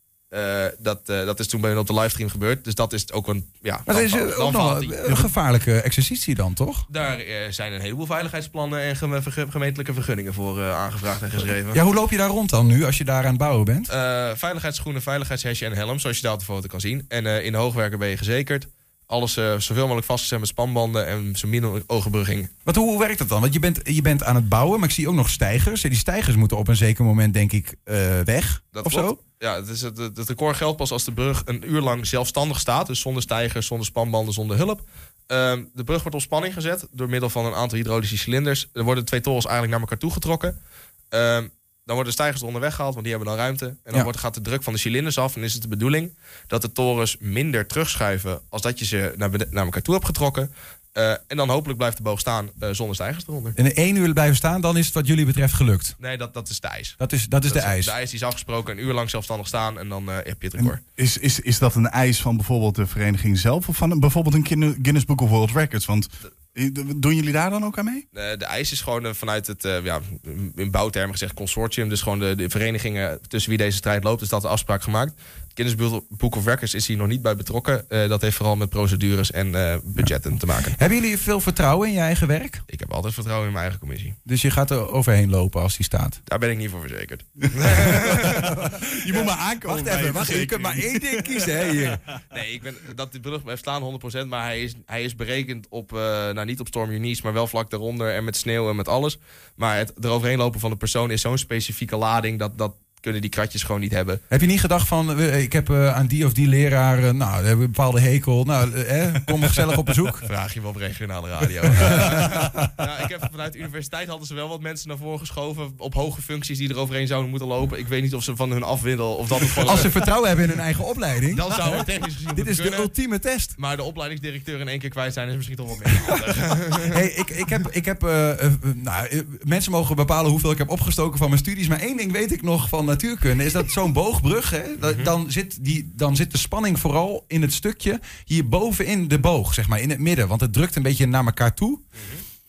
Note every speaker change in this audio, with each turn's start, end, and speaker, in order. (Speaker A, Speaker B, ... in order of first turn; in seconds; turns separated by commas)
Speaker A: 0.3-5.3, Speaker B: 3.9-6.8, Speaker A: 6.9-11.8, Speaker B: 11.7-13.9, Speaker A: 13.9-22.5, Speaker B: 22.6-29.2, Speaker A: 28.7-40.5, Speaker A: 41.1-53.6, Speaker B: 53.5-55.9, Speaker A: 56.0-57.0, Speaker B: 57.0-57.9, Speaker A: 57.5-60.8, Speaker C: 60.6-68.0, Speaker A: 68.1-80.8, Speaker B: 80.7-82.6, Speaker A: 82.7-84.2, Speaker B: 84.2-86.2, Speaker A: 86.3-88.5, Speaker B: 88.3-92.0, Speaker C: 89.0-91.9, Speaker A: 92.3-104.2, Speaker B: 104.3-110.3, Speaker A: 110.2-120.1, Speaker B: 112.1-112.7, Speaker B: 119.6-123.5, Speaker A: 121.3-123.0, Speaker A: 123.5-127.0, Speaker B: 126.9-141.8, Speaker A: 134.8-135.1, Speaker A: 142.0-142.2